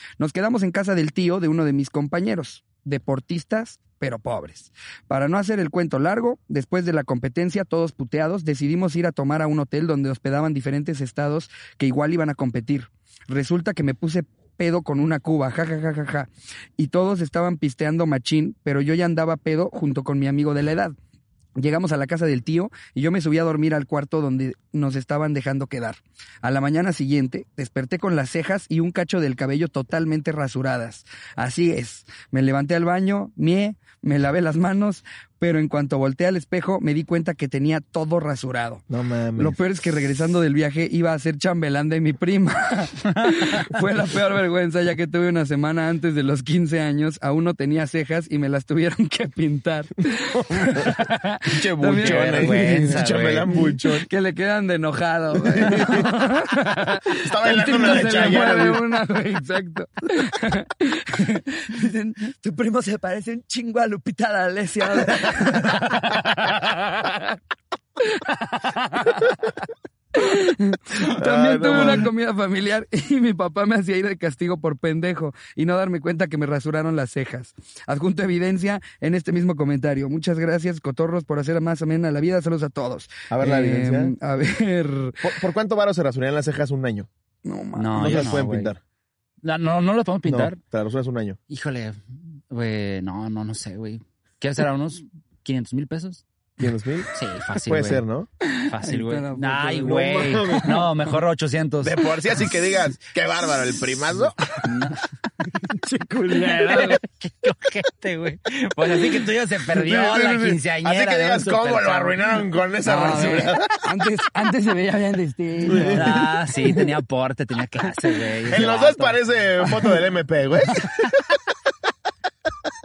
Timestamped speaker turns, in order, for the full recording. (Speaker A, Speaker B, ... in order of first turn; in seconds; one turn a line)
Speaker A: 0.2-21.0
Speaker A: 21.6-38.8
Speaker B: 38.9-39.6
Speaker A: 39.4-67.4
Speaker B: 50.3-54.1
Speaker C: 52.0-53.5
Speaker B: 55.5-56.1
Speaker B: 57.2-58.8
Speaker A: 68.0-69.6
Speaker A: 70.1-85.3
Speaker B: 71.0-72.1
Speaker B: 83.3-84.2
Speaker B: 85.2-87.1
Speaker A: 87.5-88.4
Speaker C: 87.8-88.7
Speaker B: 88.0-88.8
Speaker C: 89.4-90.6
Speaker B: 90.3-91.4
Speaker C: 91.5-96.2
Speaker B: 96.6-97.1
Speaker C: 97.1-98.0
Speaker B: 97.7-98.3
Speaker A: 98.5-100.6
Speaker C: 98.6-102.1
Speaker B: 99.8-100.9
Speaker B: 101.8-104.4
Speaker C: 104.5-105.0
Speaker A: 105.5-107.0
Speaker C: 106.5-112.3
Speaker B: 109.7-113.8
Speaker A: 112.8-116.3
Speaker C: 113.1-113.5
Speaker B: 115.7-116.2
Speaker C: 115.7-119.2
Speaker B: 118.5-121.3